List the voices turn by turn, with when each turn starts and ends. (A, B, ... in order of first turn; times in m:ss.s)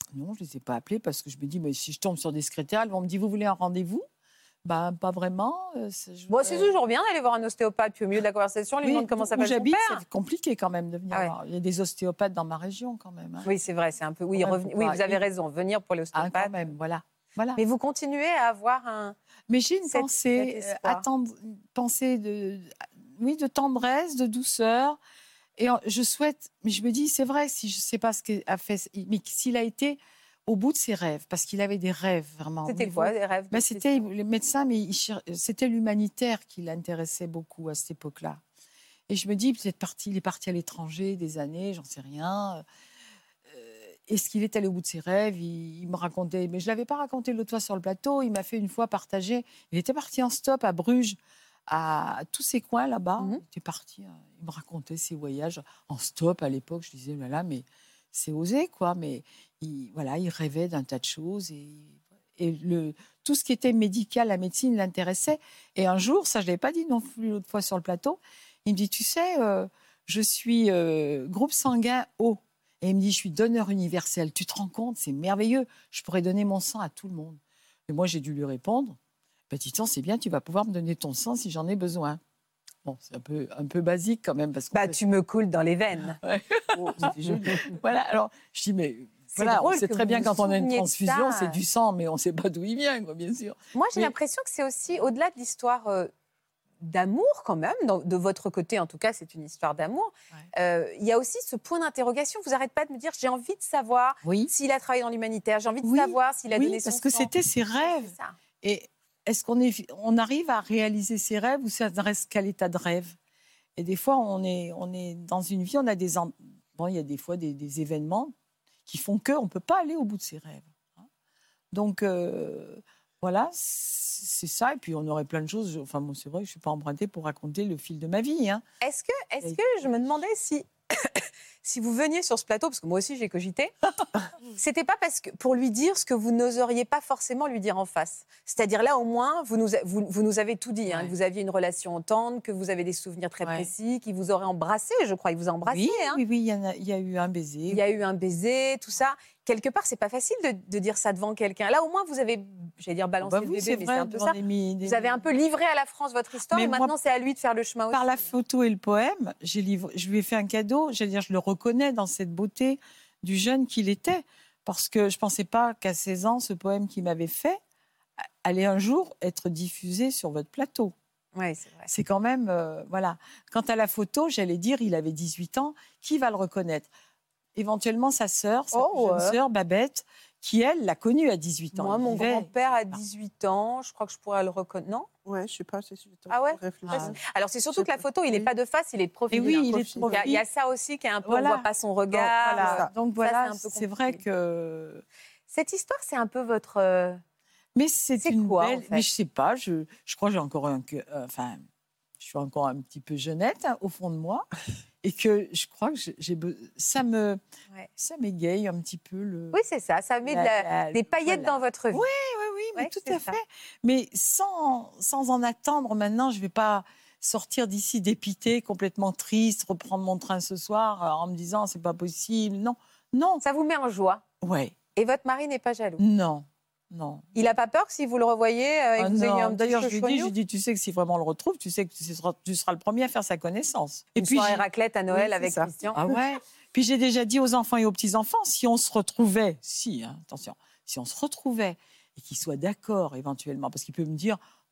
0:00.1-0:04.0 A
0:04.6-0:06.7 A
0:06.3-0:10.0 B
0:08.8-0:13.5 A
0:13.4-0:16.5 B
0:14.3-0:15.2 A
0:16.1-0:17.6 A
0:17.6-0:19.2 B
0:19.5-0:25.0 A
0:19.9-0:21.0 B
0:25.6-0:38.4 A
0:32.6-0:34.0 B
0:39.1-0:42.6 A
0:43.5-1:19.0 A
1:19.5-1:22.2 A
1:22.8-1:25.0 A
1:24.7-1:26.2 B
1:26.2-1:34.1 A
1:26.7-1:27.7 B
1:29.3-1:31.6 B
1:33.7-1:36.1 B
1:36.8-1:48.4 B
1:44.2-1:44.5 A
1:45.8-1:53.2 A
1:53.8-1:58.3 A
1:58.9-2:01.1 A
2:01.7-2:08.6 A
2:08.8-2:13.7 B
2:14.5-2:26.2 B
2:20.9-2:21.1 A
2:23.4-2:23.7 A
2:25.7-2:27.8 A
2:27.7-2:38.3 B
2:33.2-2:35.2 A
2:36.5-2:36.9 A
2:37.9-2:47.6 A
2:48.4-2:50.9 A
2:51.3-2:51.9 B
2:51.9-2:56.9 A
2:57.5-3:02.5 A
2:58.7-2:59.4 B
3:01.7-3:05.1 B
3:05.2-3:08.5 C
3:06.3-3:14.2 B
3:06.8-3:07.2 A
3:09.3-3:10.4 A
3:09.8-3:10.3 C
3:11.2-3:15.0 A
3:12.6-3:12.9 C
3:15.5-3:17.2 B
3:17.7-3:21.6 A
3:18.2-3:19.0 B
3:22.2-3:24.5 A
3:25.0-3:27.4 A
3:28.0-3:29.6 A
3:29.5-3:32.0 B
3:30.2-3:43.4 A
3:32.8-3:33.4 B
3:43.4-3:44.2 B
3:44.4-3:44.7 A
3:45.0-3:46.0 B
3:46.0-3:47.3 A
3:47.3-3:50.3 B
3:49.0-3:54.6 A
3:54.2-3:56.0 B
3:55.2-3:55.7 C
3:55.9-4:04.4 A